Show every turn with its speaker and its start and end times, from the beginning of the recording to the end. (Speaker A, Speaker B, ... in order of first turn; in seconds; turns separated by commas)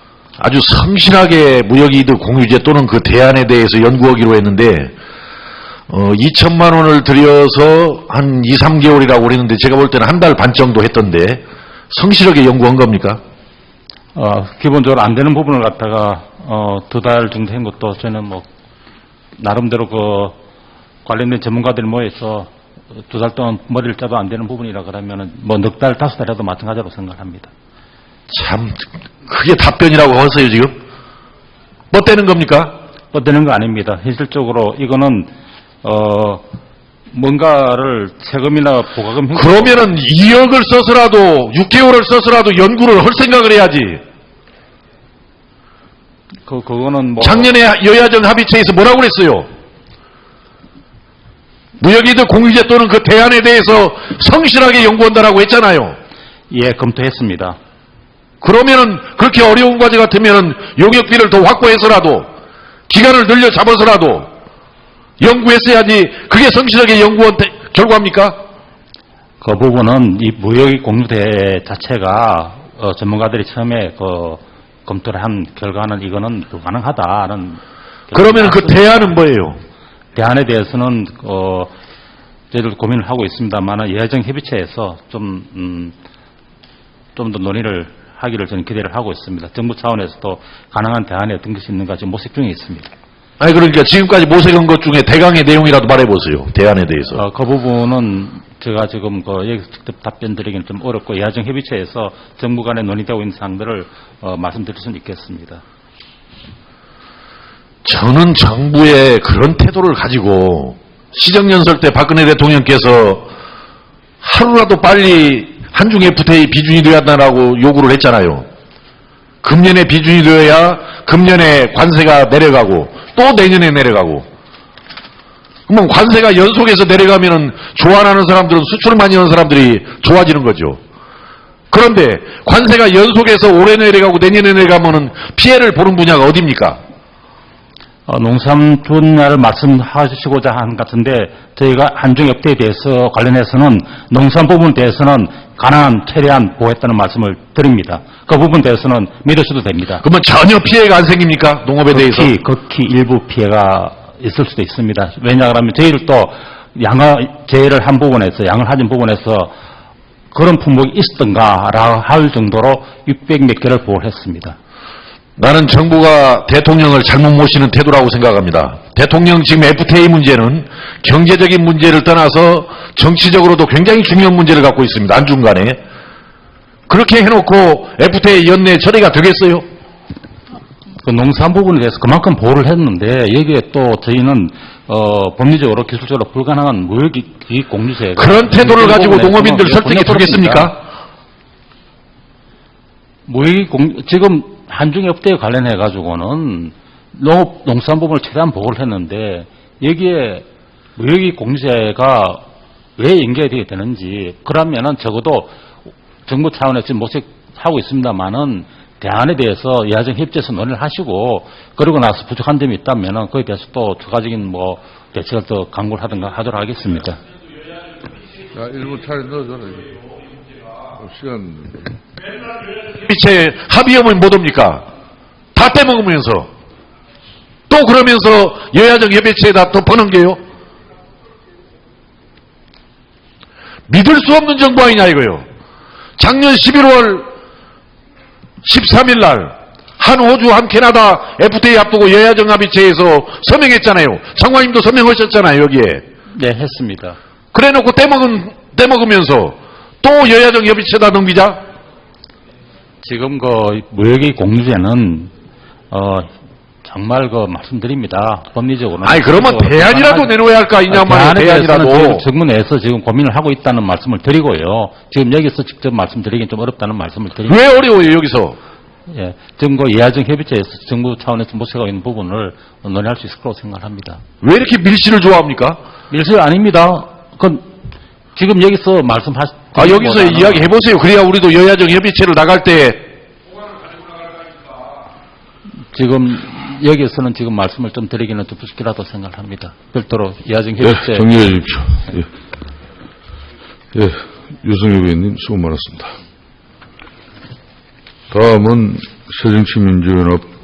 Speaker A: 0.4-4.9, Speaker A: 5.9-13.2, Speaker B: 14.1-18.5, Speaker B: 19.4-20.4, Speaker B: 21.0-27.5, Speaker A: 28.3-30.7, Speaker A: 31.9-32.8, Speaker B: 33.1-35.3, Speaker B: 35.8-36.4, Speaker B: 37.1-39.9, Speaker A: 39.3-44.0, Speaker B: 46.4-47.5, Speaker A: 47.2-49.5, Speaker A: 51.8-56.0, Speaker B: 56.5-57.6, Speaker A: 58.4-62.3, Speaker A: 62.9-64.3, Speaker A: 65.2-68.4, Speaker B: 69.4-79.1, Speaker A: 78.1-79.6, Speaker B: 80.1-81.7, Speaker B: 82.5-85.9, Speaker B: 87.1-92.9, Speaker A: 93.4-97.2, Speaker B: 97.2-105.6, Speaker A: 107.8-113.3, Speaker A: 114.2-118.5, Speaker A: 119.4-124.3, Speaker A: 125.7-130.8, Speaker A: 131.7-136.8, Speaker B: 138.1-150.0, Speaker A: 150.0-152.3, Speaker B: 151.9-159.5, Speaker B: 160.3-164.6, Speaker A: 165.4-175.8, Speaker A: 176.9-179.7, Speaker B: 181.0-190.7, Speaker A: 188.2-190.8, Speaker B: 193.2-202.4, Speaker B: 203.0-205.5, Speaker B: 206.2-217.2, Speaker C: 218.5-220.0, Speaker C: 220.9-222.0, Speaker A: 222.9-224.8, Speaker A: 225.5-226.5, Speaker A: 227.7-230.4, Speaker A: 233.9-235.4, Speaker A: 236.2-237.2, Speaker A: 238.6-246.0, Speaker B: 246.3-247.2, Speaker A: 247.5-251.6, Speaker B: 253.0-255.3, Speaker B: 255.9-256.3, Speaker B: 256.8-260.3, Speaker A: 259.0-262.2, Speaker B: 260.9-267.6, Speaker A: 267.5-268.6, Speaker B: 269.1-274.2, Speaker A: 274.4-275.8, Speaker B: 276.1-277.7, Speaker B: 278.4-280.7, Speaker A: 279.7-283.1, Speaker B: 285.9-291.3, Speaker C: 290.8-292.3, Speaker C: 293.9-296.1, Speaker C: 298.3-300.5